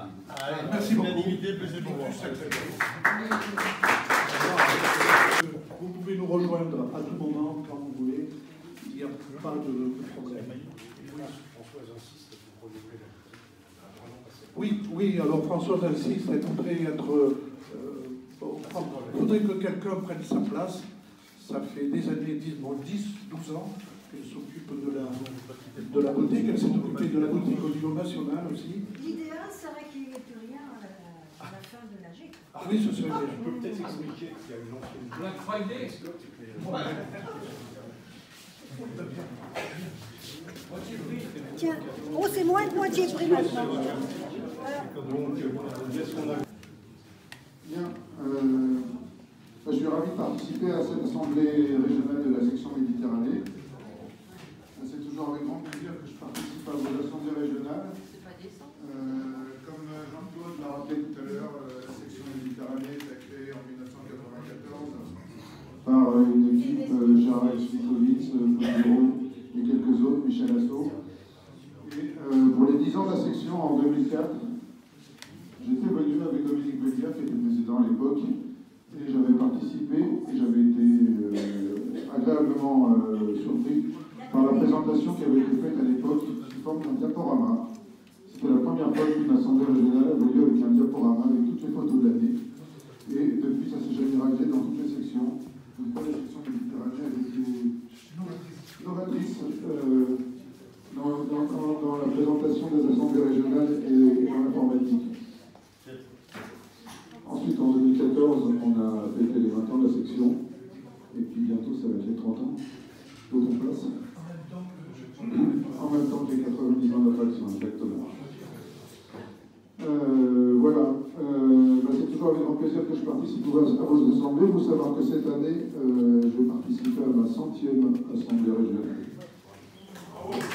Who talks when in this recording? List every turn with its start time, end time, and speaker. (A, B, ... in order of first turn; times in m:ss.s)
0:00.4-0:02.6 A
0:04.2-0:11.3 A
0:10.5-0:14.4 B
0:14.5-0:28.8 A
0:29.0-0:32.4 C
0:32.5-0:33.6 A
0:33.4-0:36.9 B
0:41.6-0:44.1 C
0:42.7-0:44.2 B
0:44.6-0:44.9 C
0:44.9-0:46.4 B
0:47.6-0:49.0 D
0:49.6-0:53.4 D
0:54.8-0:57.9 D
0:58.7-1:05.1 D
1:05.8-1:11.0 D
1:11.8-1:14.4 D
1:15.6-1:18.3 D
1:18.9-1:27.6 D
1:28.2-1:32.4 D
1:33.0-1:40.2 D
1:40.9-1:45.1 D
1:47.2-1:50.4 D
1:51.1-1:52.6 D
1:53.3-1:53.9 D
1:54.2-1:55.8 A
1:55.3-1:58.2 D
1:59.8-2:09.1 D